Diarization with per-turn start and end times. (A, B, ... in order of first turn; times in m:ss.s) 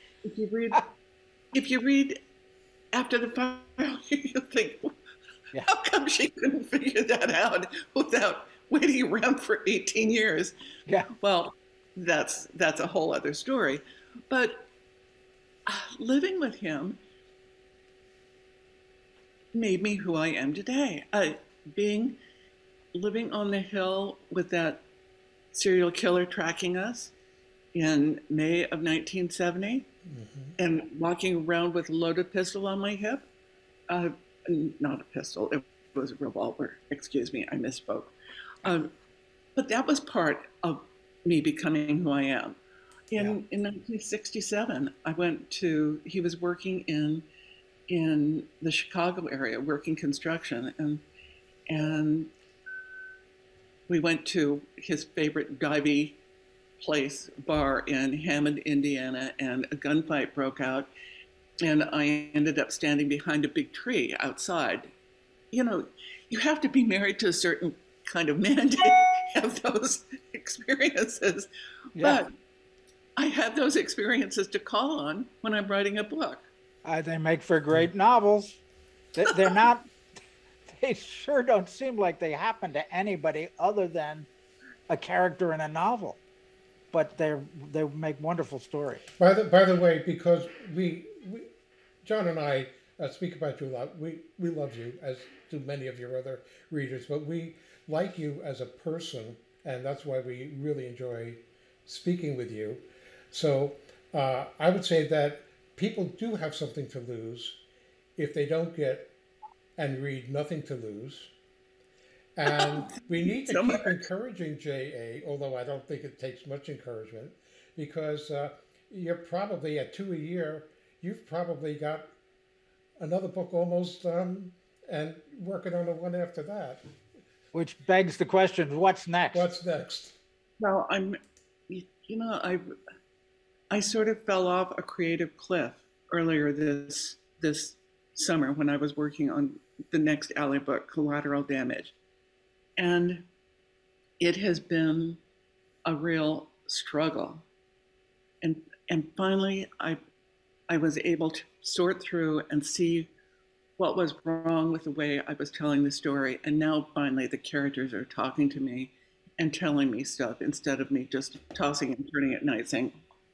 0:00.2-0:00.9 A
0:01.5-0:02.2 A
0:02.9-0:04.9 A
0:05.6-0:10.6 A
0:11.1-0:14.7 A
0:15.7-0:17.0 A
0:19.5-0:22.2 A
0:22.9-0:24.8 A
0:25.5-0:27.1 A
0:27.7-0:29.9 A
0:30.1-0:30.6 B
0:30.6-0:33.2 A
0:33.9-0:38.9 A
0:39.6-0:42.6 A
0:43.1-0:47.2 A
0:47.9-0:51.0 A
0:51.7-0:52.3 A
0:53.9-0:56.2 A
0:56.8-1:00.9 A
1:01.6-1:04.9 A
1:05.5-1:12.3 A
1:13.2-1:16.5 A
1:16.8-1:18.6 C
1:19.2-1:19.9 C
1:20.7-1:24.3 C
1:24.9-1:26.2 C
1:26.9-1:29.0 C
1:29.2-1:31.5 B
1:32.0-1:47.6 B
1:48.2-1:49.1 B
1:49.8-1:51.3 B
1:52.4-2:02.1 B
1:52.5-1:54.0 A
2:03.0-2:06.8 B
2:07.5-2:09.5 C
2:09.3-2:10.2 B
2:10.6-2:11.2 A
2:11.7-2:12.7 A
2:13.7-2:22.0 A
2:22.8-2:23.2 A
2:24.2-2:25.2 A
2:25.9-2:27.4 A
2:28.4-2:30.0 A
2:30.7-2:33.1 A
2:33.8-2:42.9 A